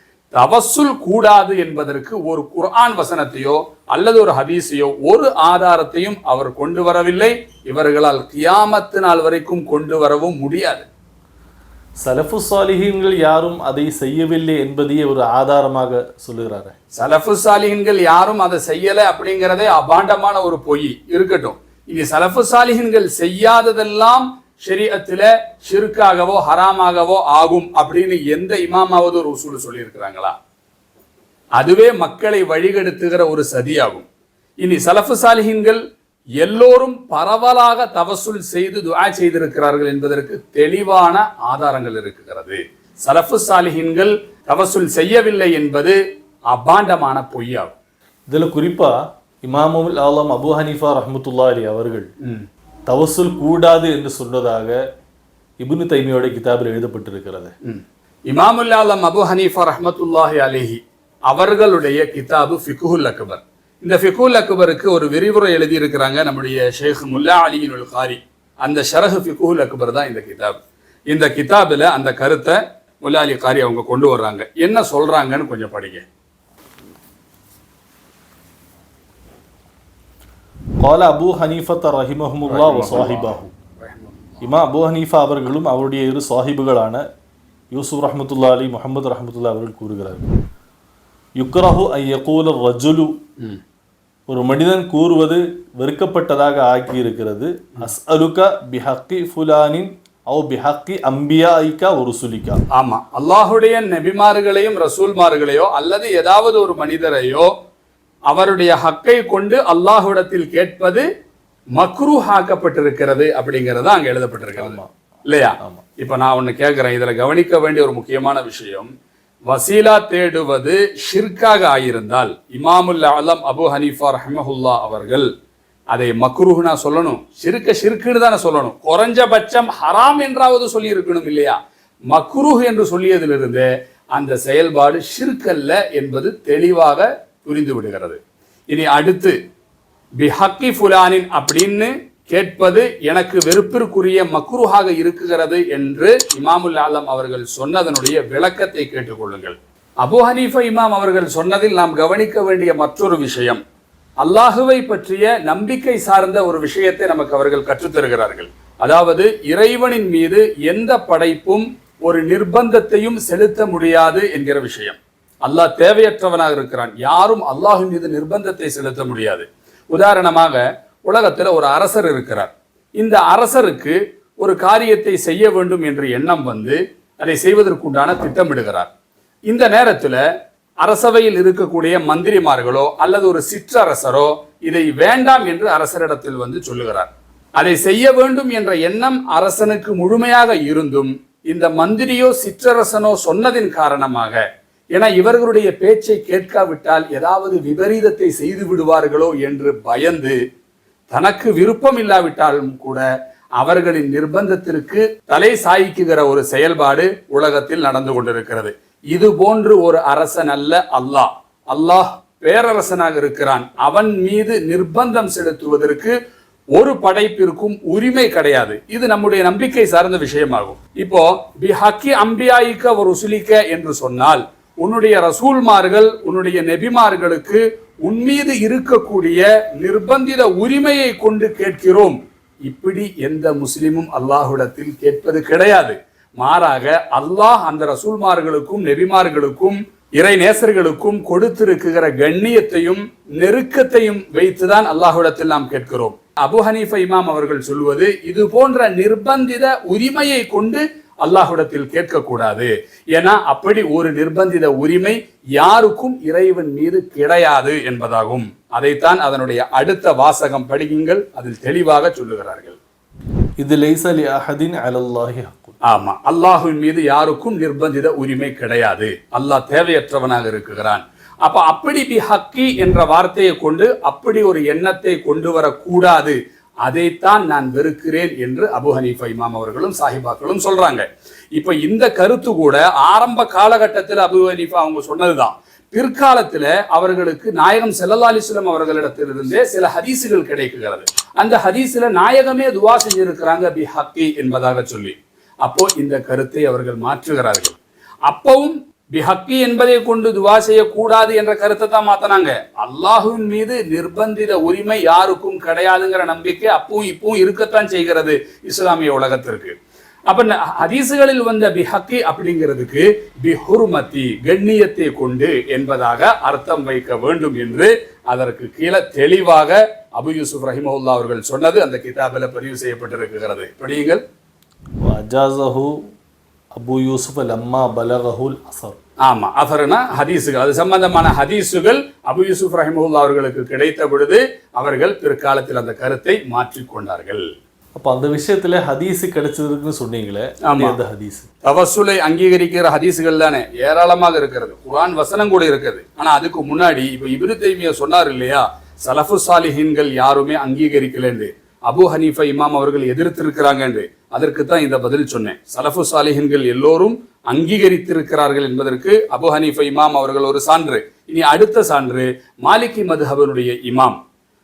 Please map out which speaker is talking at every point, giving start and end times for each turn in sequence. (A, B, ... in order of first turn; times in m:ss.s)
0:00.3-0:10.9 A
0:12.0-0:16.7 B
0:17.0-0:30.4 A
0:31.6-0:34.1 A
0:34.6-0:35.8 A
0:36.4-0:46.0 A
0:46.5-0:47.7 A
0:48.3-0:52.1 B
0:52.9-0:54.8 B
0:55.6-0:57.5 B
0:57.6-1:10.6 A
1:11.1-1:16.0 A
1:20.8-1:23.4 B
1:22.5-1:24.1 A
1:24.4-1:27.0 B
1:27.7-1:30.3 B
1:31.4-1:33.1 B
1:34.3-1:42.6 B
1:42.7-1:47.5 A
1:48.3-1:51.1 A
1:51.8-1:58.9 A
1:54.6-1:54.9 B
1:59.5-2:05.3 A
2:05.9-2:11.6 A
2:12.1-2:18.2 A
2:18.7-2:19.4 A
2:20.2-2:33.6 A
2:34.2-2:58.9 A
2:59.5-3:00.2 A
3:00.8-3:14.4 A
3:14.9-3:20.4 A
3:21.1-3:23.1 A
3:23.6-3:36.1 A
3:36.8-4:22.8 A
4:23.6-4:25.8 B
4:25.9-5:09.8 A
5:10.3-5:24.2 A
5:25.0-5:25.9 B
5:26.8-5:29.0 B
5:29.2-5:37.4 A
5:38.0-5:41.5 B
5:40.6-5:41.0 A
5:41.6-6:04.2 A